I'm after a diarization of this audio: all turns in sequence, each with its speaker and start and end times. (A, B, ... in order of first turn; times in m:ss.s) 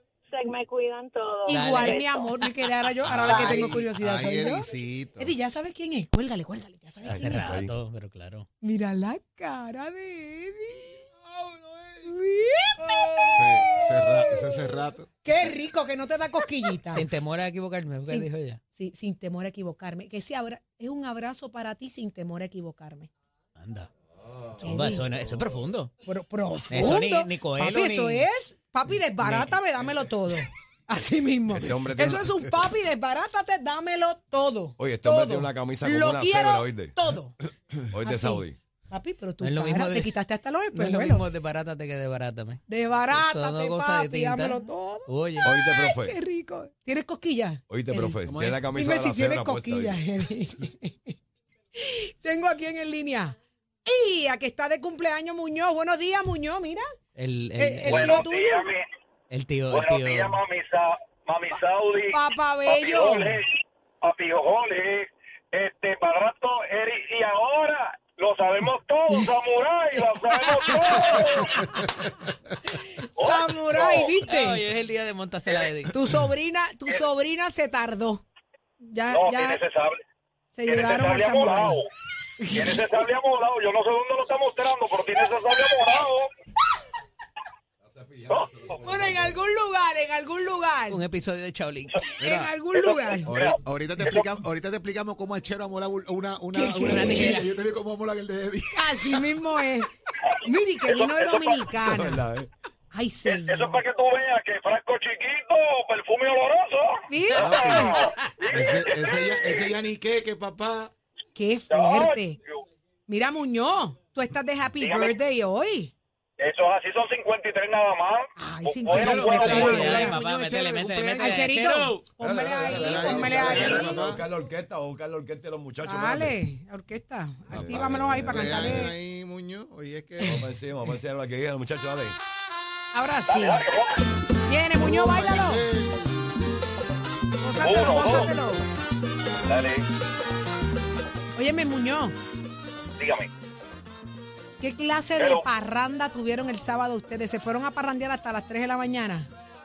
0:00.3-0:02.2 A
0:01.5-0:07.6 B
0:01.5-0:02.5 C
0:03.0-0:05.3 D
0:03.3-0:03.6 A
0:07.0-0:07.7 E
0:07.1-0:08.5 C
0:08.6-0:11.0 B
0:11.4-0:12.1 E
0:12.0-0:12.9 B
0:13.3-0:15.1 D
0:13.8-0:14.5 B
0:15.2-0:17.0 B
0:16.9-0:18.6 C
0:18.1-0:23.1 B
0:23.6-0:23.9 C
0:24.2-0:25.6 E
0:24.6-0:25.9 C
0:24.6-0:25.0 B
0:26.0-0:37.4 B
0:26.7-0:28.2 C
0:29.2-0:29.6 C
0:31.5-0:32.3 E
0:34.8-0:36.9 E
0:37.9-0:38.6 E
0:38.0-0:41.2 B
0:39.4-0:40.1 C
0:40.7-0:45.5 C
0:42.7-0:51.2 B
0:45.4-0:46.2 E
0:47.7-0:50.0 E
0:48.2-0:48.6 C
0:51.8-0:53.3 B
0:53.8-0:56.9 B
0:57.1-0:58.2 C
0:57.6-0:58.7 B
0:57.8-0:58.8 F
0:59.3-1:00.4 C
0:59.7-1:11.5 F
1:02.1-1:03.4 B
1:10.0-1:11.8 B
1:12.6-1:14.6 B
1:13.2-1:14.2 F
1:14.2-1:16.0 C
1:15.9-1:18.2 B
1:18.8-1:19.6 B
1:19.1-1:20.0 F
1:20.5-1:21.8 B
1:20.6-1:21.9 F
1:22.4-1:23.0 B
1:22.5-1:26.3 F
1:27.8-1:29.4 E
1:28.3-1:28.8 F
1:28.8-1:31.0 B
1:30.9-1:32.0 C
1:32.1-1:33.3 B
1:32.2-1:32.5 D
1:32.8-1:33.6 F
1:33.2-1:39.3 D
1:36.5-1:37.4 B
1:36.8-1:37.5 C
1:38.8-1:39.9 B
1:40.4-1:42.2 B
1:40.8-1:41.6 F
1:41.8-1:42.5 E
1:42.9-1:43.8 B
1:43.2-1:49.7 F
1:47.1-1:48.0 B
1:47.7-1:48.5 C
1:48.5-1:50.9 D
1:51.3-1:52.4 B
1:51.7-1:52.6 F
1:53.1-1:55.9 B
1:54.8-1:55.2 F
1:56.4-1:59.8 F
1:58.4-2:00.2 B
1:58.9-2:01.5 D
1:59.0-2:02.0 C
2:01.2-2:04.0 B
2:02.2-2:06.4 E
2:02.3-2:04.2 D
2:05.8-2:08.9 B
2:07.5-2:08.9 E
2:07.7-2:10.4 D
2:10.2-2:12.2 E
2:12.9-2:13.6 B
2:13.3-2:14.0 F
2:14.4-2:15.6 B
2:14.7-2:16.1 D
2:17.4-2:18.6 B
2:17.6-2:18.3 F
2:19.4-2:19.9 F
2:21.3-2:22.1 B
2:23.0-2:23.3 F
2:24.6-2:29.3 B
2:25.2-2:25.5 F